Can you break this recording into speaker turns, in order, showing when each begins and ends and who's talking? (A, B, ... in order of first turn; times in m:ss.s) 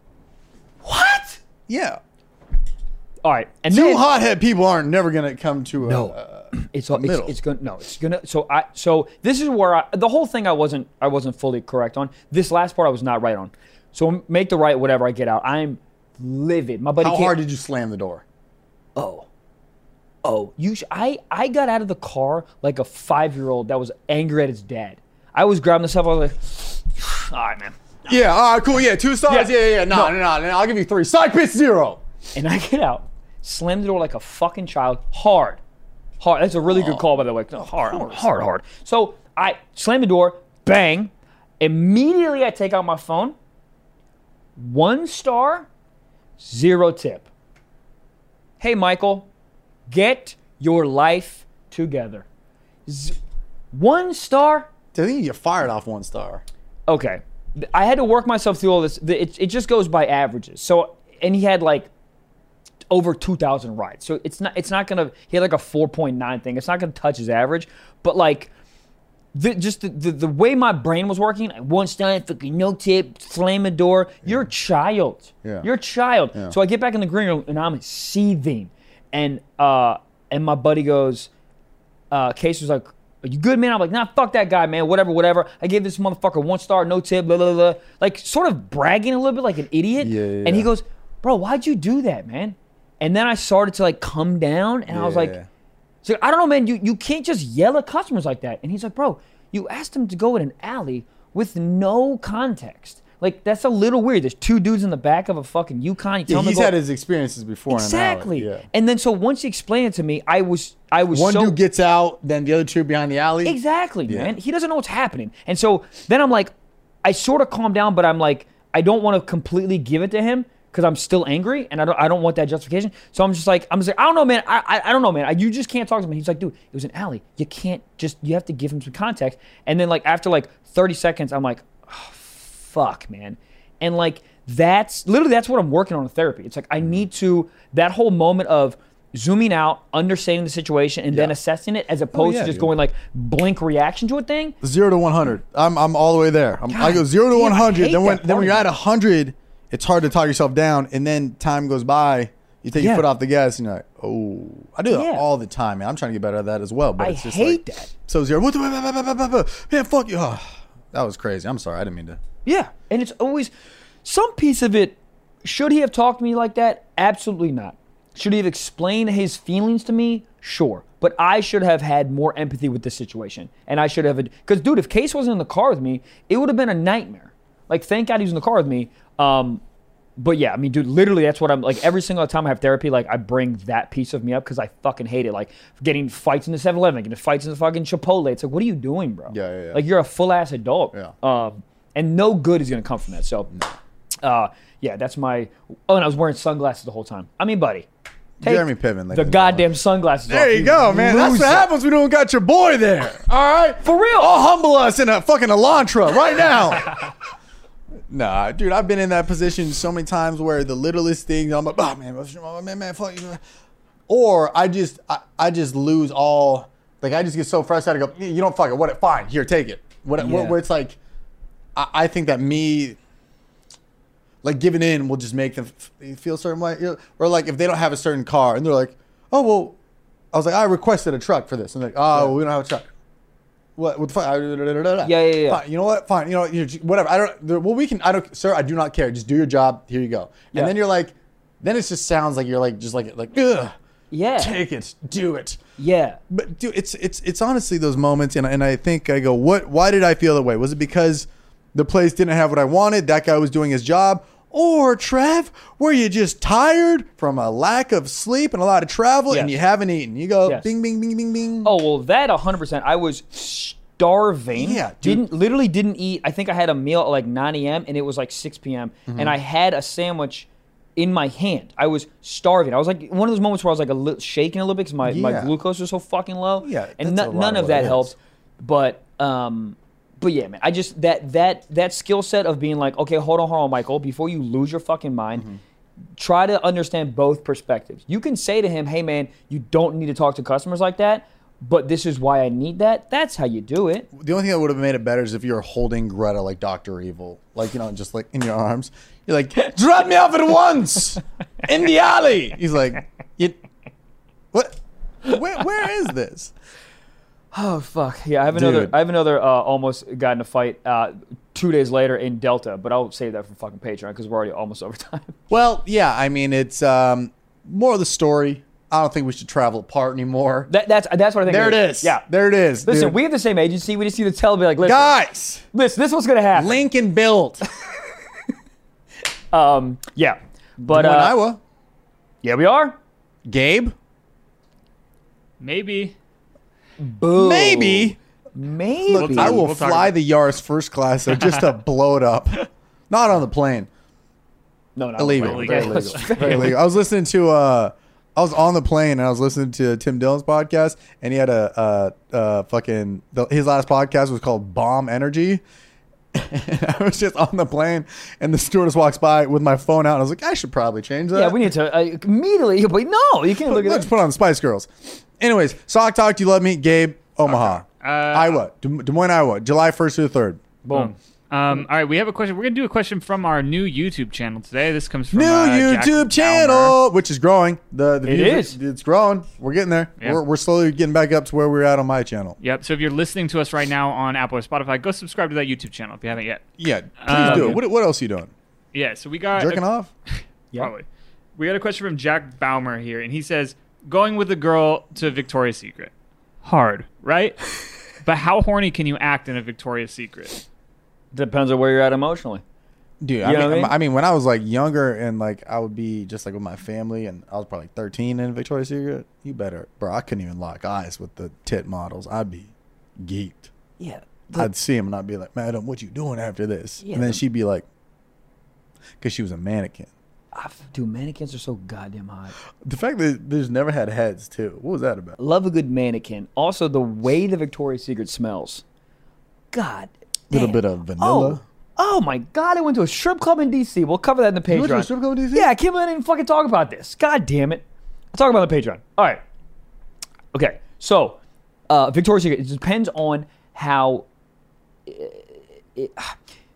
0:00.8-0:01.4 A
0:01.7-0:02.0 B
0:03.2-0:04.0 A
0:03.7-0:07.4 B
0:05.8-0:17.3 A
0:17.0-0:18.2 B
0:19.0-0:19.3 A
0:20.2-0:27.8 A
0:28.1-0:32.0 B
0:29.3-0:30.1 A
0:32.3-0:35.6 A
0:36.2-0:43.3 A
0:36.6-0:38.3 B
0:44.6-0:45.7 A
0:46.4-0:47.3 A
0:48.6-0:49.3 A
0:49.9-0:52.2 A
0:52.9-0:53.2 A
0:53.7-0:54.7 A
0:54.9-0:56.4 B
0:56.9-1:01.9 A
1:02.9-1:08.5 A
1:09.3-1:21.3 A
1:22.1-1:35.4 A
1:30.0-1:30.7 B
1:34.9-1:35.5 B
1:36.0-1:46.7 A
1:46.3-1:48.6 B
1:47.7-1:51.6 A
1:51.1-1:54.3 B
1:53.4-1:56.5 A
1:57.0-2:24.6 A
2:22.1-2:22.7 B
2:24.6-2:42.2 B
2:26.7-2:28.7 A
2:32.8-2:33.0 A
2:34.9-2:35.2 A
2:37.0-2:37.9 A
2:42.4-2:43.5 A
2:44.0-2:59.6 A
3:00.2-3:13.5 A
3:09.3-3:09.8 B
3:14.2-3:17.9 A
3:18.4-3:19.7 B
3:18.4-3:21.7 A
3:20.3-3:27.1 B
3:23.8-3:24.3 A
3:28.1-3:33.4 B
3:34.1-3:41.0 B
3:40.2-3:40.6 A
3:41.7-3:43.0 B
3:44.4-3:49.8 B
3:50.3-3:52.8 B
3:53.8-4:03.7 B
3:55.0-3:55.6 A
4:04.1-4:04.6 A
4:04.4-4:05.6 B
4:05.8-4:06.2 A
4:06.3-4:21.7 B
4:21.6-4:45.5 A
4:24.6-4:25.3 B
4:29.1-4:29.4 B
4:35.0-4:35.5 B
4:36.6-4:38.1 B
4:46.2-4:54.1 A
4:54.1-5:03.6 B
5:04.5-5:06.5 B
5:07.5-5:15.4 A
5:08.5-5:09.0 B
5:15.5-5:20.7 B
5:20.7-5:22.2 A
5:21.4-5:23.2 B
5:22.8-5:25.1 A
5:24.8-5:25.6 B
5:25.7-5:26.8 A
5:26.5-5:27.6 B
5:29.5-5:31.4 A
5:30.8-5:31.6 B
5:32.4-5:33.0 A
5:33.4-5:33.9 B
5:35.6-5:36.1 C
5:37.0-5:39.6 A
5:37.3-5:38.2 B
5:39.1-5:43.9 B
5:39.1-5:40.1 C
5:45.0-5:46.8 A
5:45.2-5:55.6 B
5:45.4-5:46.7 C
5:56.3-6:01.7 B
6:01.3-6:04.1 A
6:03.6-6:10.6 B
6:07.4-6:08.6 C
6:10.8-6:11.1 A
6:10.9-6:17.0 C
6:15.3-6:22.6 B
6:18.2-6:18.8 A
6:22.6-6:26.7 C
6:26.8-6:28.5 B
6:27.2-6:27.8 C
6:27.4-6:27.8 A
6:28.9-6:29.8 C
6:29.5-6:30.1 B
6:30.8-6:36.1 C
6:36.6-6:37.6 C
6:38.2-6:40.6 C
6:41.3-6:42.6 A
6:43.2-6:53.7 B
6:43.4-6:43.9 A
6:54.0-6:54.7 A
6:54.5-6:57.8 B
6:57.0-6:57.4 A
6:59.2-7:00.1 B
7:00.5-7:02.6 A
7:02.7-7:05.4 B
7:05.4-7:08.8 A
7:09.7-7:19.4 A
7:10.5-7:11.6 B
7:14.7-7:15.7 B
7:20.5-7:24.2 A
7:25.1-7:26.3 A